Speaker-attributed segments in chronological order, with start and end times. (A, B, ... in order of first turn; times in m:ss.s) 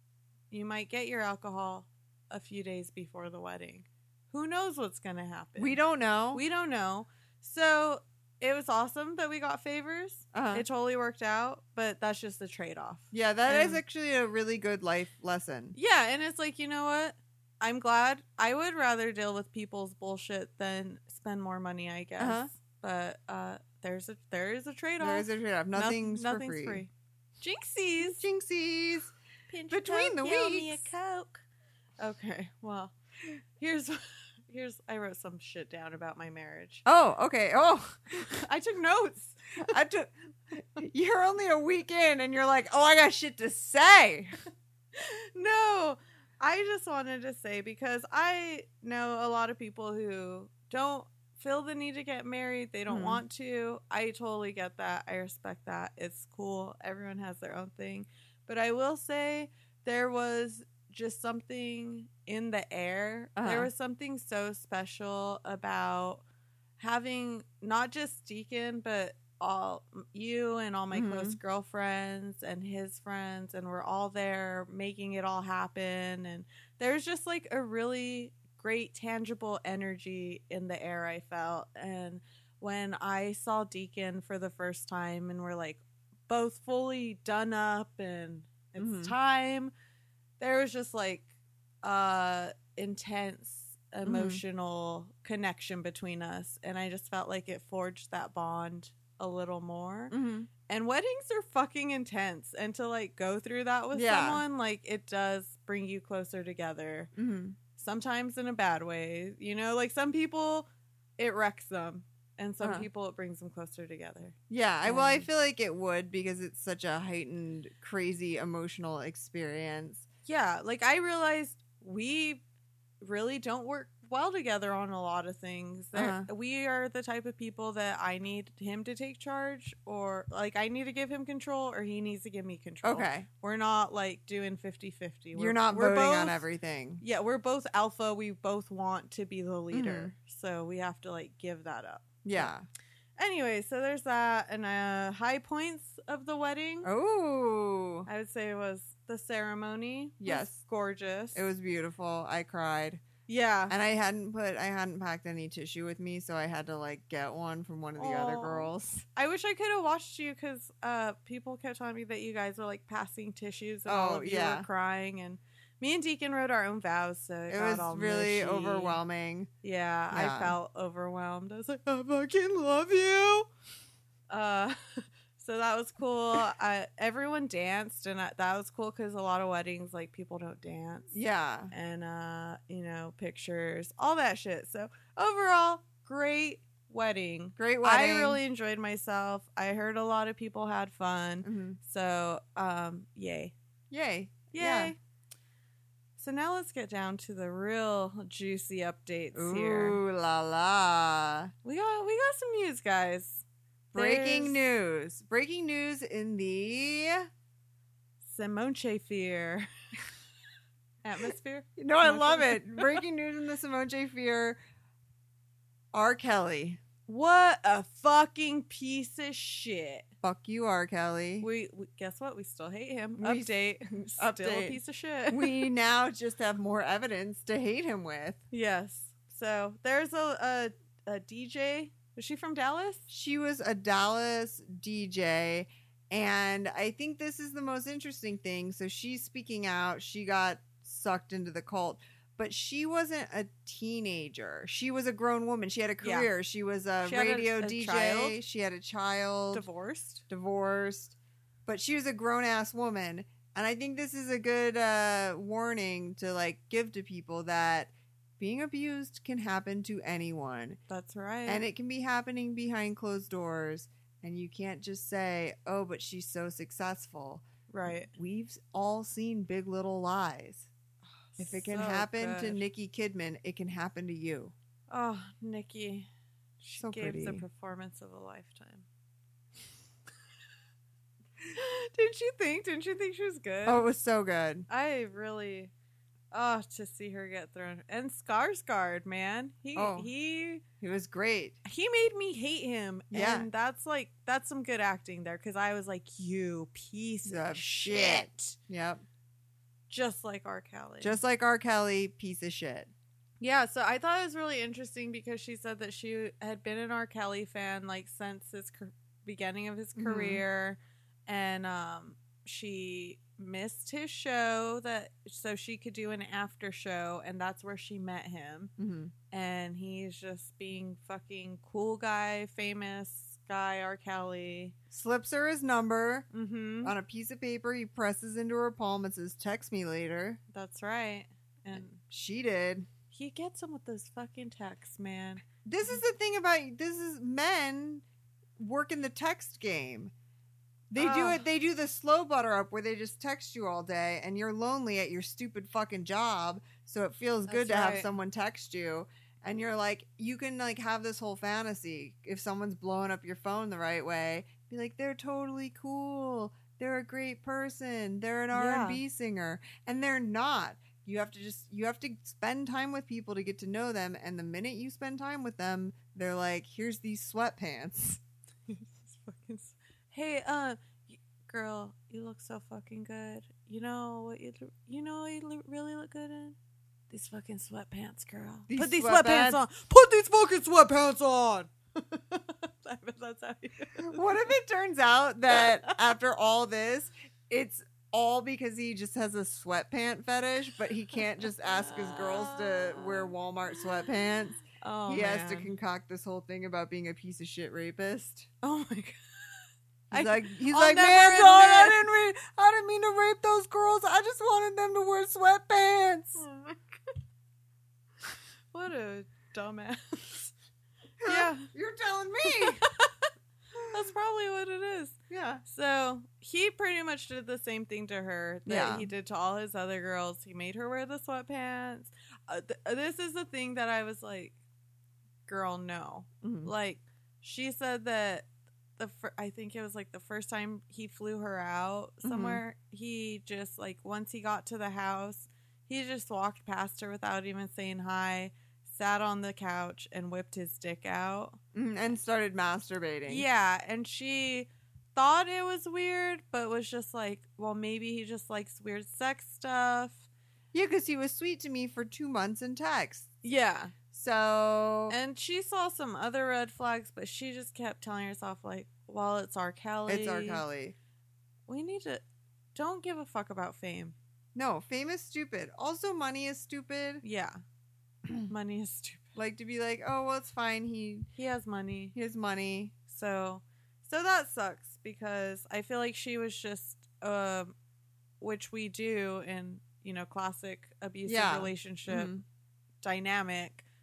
0:00.5-0:05.8 A
0:05.6-0:06.4 B
0:06.3-0:13.8 A
0:10.3-0:10.7 B
0:13.1-0:15.8 B
0:15.8-0:28.2 A
0:22.2-0:22.5 B
0:25.0-0:26.8 B
0:28.0-0:29.2 B
0:29.5-0:31.5 A
0:29.7-0:30.9 B
0:32.0-0:36.8 A
0:36.9-0:38.4 B
0:38.4-0:39.8 A
0:39.6-0:44.4 B
0:45.0-1:06.2 A
0:52.9-0:53.2 B
1:03.4-1:03.7 B
1:06.8-1:29.7 A
1:10.9-1:11.4 B
1:28.8-1:29.1 B
1:30.4-1:31.3 A
1:31.8-1:40.2 A
1:34.0-1:34.4 B
1:40.1-1:40.5 B
1:40.7-1:47.1 A
1:43.9-1:44.4 B
1:47.2-1:47.6 B
1:47.8-1:50.7 A
1:51.2-1:55.3 A
1:52.6-1:52.9 B
1:54.5-2:00.1 B
2:00.3-2:02.4 A
2:03.0-2:16.5 A
2:05.9-2:06.3 B
2:12.8-2:13.3 B
2:15.4-2:17.0 B
2:17.0-2:22.5 A
2:19.7-2:20.1 B
2:22.2-2:22.6 B
2:23.2-2:26.9 A
2:26.8-2:28.1 B
2:28.1-2:31.4 A
2:30.2-2:30.6 B
2:31.4-2:33.0 B
2:33.3-2:33.8 A
2:33.7-2:39.1 B
2:38.0-2:49.0 A
2:43.9-2:44.7 B
2:47.5-2:49.5 B
2:49.6-2:53.5 A
2:50.1-2:50.6 B
2:54.3-3:01.2 A
3:01.1-3:01.7 B
3:01.7-3:13.5 A
3:07.6-3:08.4 B
3:11.4-3:11.8 B
3:13.9-3:14.9 B
3:14.5-3:15.0 A
3:16.2-3:20.0 A
3:19.3-3:21.5 B
3:21.6-3:24.6 A
3:23.9-3:27.3 B
3:28.2-3:29.7 A
3:31.0-3:33.0 A
3:31.8-3:34.6 B
3:35.9-3:36.8 B
3:37.1-3:40.1 A
3:40.2-3:41.5 B
3:41.4-3:45.7 A
3:43.2-3:44.8 B
3:45.3-3:48.4 B
3:48.5-3:53.1 A
3:53.1-4:09.6 B
4:06.0-4:06.3 A
4:07.0-4:08.4 A
4:09.5-4:10.2 A
4:10.3-4:20.8 B
4:20.9-4:21.6 A
4:21.5-4:30.7 B
4:27.7-4:28.1 A
4:31.3-4:32.6 A
4:31.4-4:34.5 B
4:34.9-4:36.1 A
4:36.6-4:38.8 A
4:36.8-4:37.4 B
4:41.5-4:43.8 A
4:43.7-4:44.7 B
4:44.7-4:45.7 A
4:46.3-4:50.6 A
4:49.8-4:50.1 B
4:50.8-4:51.6 B
4:51.6-4:58.6 A
4:53.1-4:53.5 B
4:57.2-4:59.0 B
4:59.9-5:01.2 A
5:01.0-5:02.9 B
5:03.4-5:18.7 A
5:10.0-5:10.4 B
5:18.8-5:19.1 B
5:19.3-5:24.7 A
5:24.9-5:26.3 B
5:26.3-5:27.0 A
5:26.8-5:30.4 B
5:30.5-5:32.0 A
5:31.7-5:32.9 B
5:33.1-5:36.0 A
5:35.6-5:38.0 B
5:38.6-5:40.1 B
5:40.9-6:08.2 B
5:41.0-5:41.4 A
5:47.5-5:48.1 A
5:58.5-5:59.0 A
6:08.7-6:16.6 A
6:17.1-6:24.4 A
6:18.7-6:19.6 B
6:24.0-6:38.5 B
6:25.5-6:25.9 A
6:31.6-6:33.3 A
6:34.8-6:35.7 A
6:38.6-6:42.0 A
6:40.1-6:46.4 B
6:46.4-6:47.1 A
6:48.7-6:50.5 A
6:51.2-6:52.8 B
6:51.2-6:51.7 A
6:52.4-6:53.3 A
6:53.9-7:04.6 A
6:55.3-6:55.6 B
6:58.7-6:59.1 B
7:05.5-7:21.6 A
7:06.4-7:06.7 B
7:12.2-7:12.6 B
7:21.8-7:23.5 B
7:23.3-7:30.3 A
7:30.7-7:33.3 B
7:33.4-7:33.9 A
7:34.1-7:35.2 B
7:35.1-7:40.6 A
7:40.1-7:41.0 B
7:41.7-7:42.2 A
7:42.8-7:44.2 A
7:44.6-7:47.2 B
7:47.2-7:47.6 A
7:48.4-7:49.2 A
7:49.4-7:51.3 B
7:51.4-7:52.2 A
7:52.2-7:53.0 B
7:53.1-7:57.8 A
7:58.4-8:02.3 A
8:01.3-8:02.4 B
8:03.0-8:03.8 A